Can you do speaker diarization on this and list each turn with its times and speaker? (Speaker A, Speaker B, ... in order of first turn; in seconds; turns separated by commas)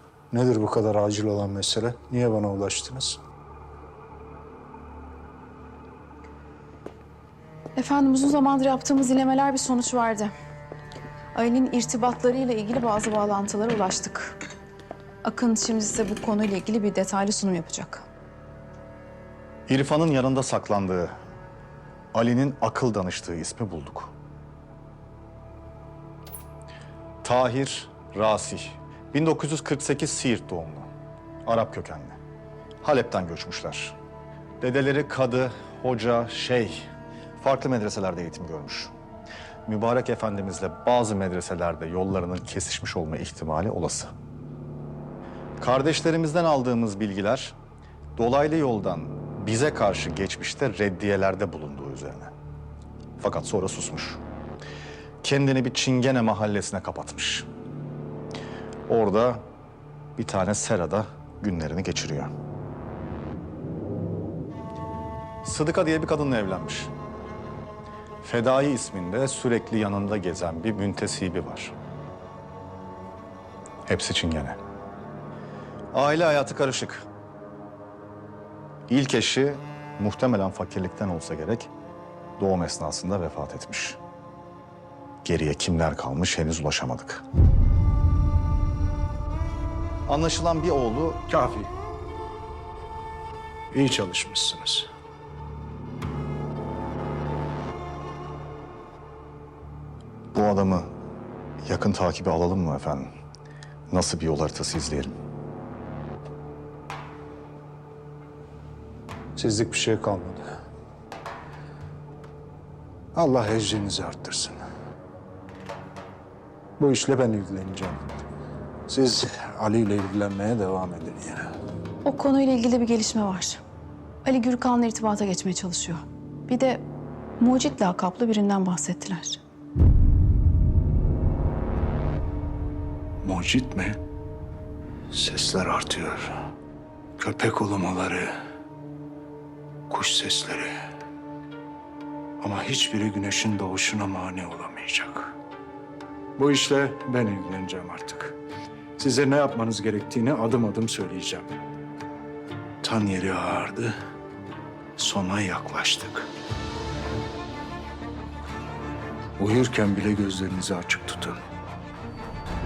Speaker A: 0.3-3.2, Speaker B: 7.8-10.3, Speaker B: 11.3-14.4, Speaker B: 15.2-18.1, Speaker C: 19.7-21.1, Speaker C: 22.1-24.1, Speaker C: 27.2-30.9, Speaker C: 31.4-32.2, Speaker C: 32.8-34.0, Speaker C: 34.6-36.8, Speaker C: 37.4-38.9, Speaker C: 39.7-44.1, Speaker C: 45.6-47.6, Speaker C: 48.2-52.3, Speaker C: 53.2-54.2, Speaker C: 55.2-57.5, Speaker C: 58.9-59.5, Speaker C: 60.2-62.3, Speaker C: 65.4-66.9, Speaker C: 68.2-71.7, Speaker C: 73.8-74.6, Speaker C: 75.9-77.0, Speaker C: 78.9-81.7, Speaker C: 82.4-84.0, Speaker C: 85.2-87.2, Speaker C: 90.1-91.2, Speaker A: 91.3-91.7, Speaker A: 93.7-94.9, Speaker C: 100.3-100.9, Speaker C: 101.6-103.1, Speaker C: 103.9-105.1, Speaker A: 109.3-110.4, Speaker A: 113.1-114.6, Speaker A: 116.8-118.0, Speaker A: 118.9-121.5, Speaker B: 122.0-123.6, Speaker B: 124.2-126.8, Speaker B: 127.4-129.4, Speaker A: 133.2-134.0, Speaker A: 135.1-136.3, Speaker A: 137.2-138.3, Speaker A: 139.9-140.7, Speaker A: 142.4-145.3, Speaker A: 146.4-148.3, Speaker A: 149.0-151.6, Speaker A: 152.8-153.9, Speaker A: 155.0-156.3, Speaker A: 159.4-161.4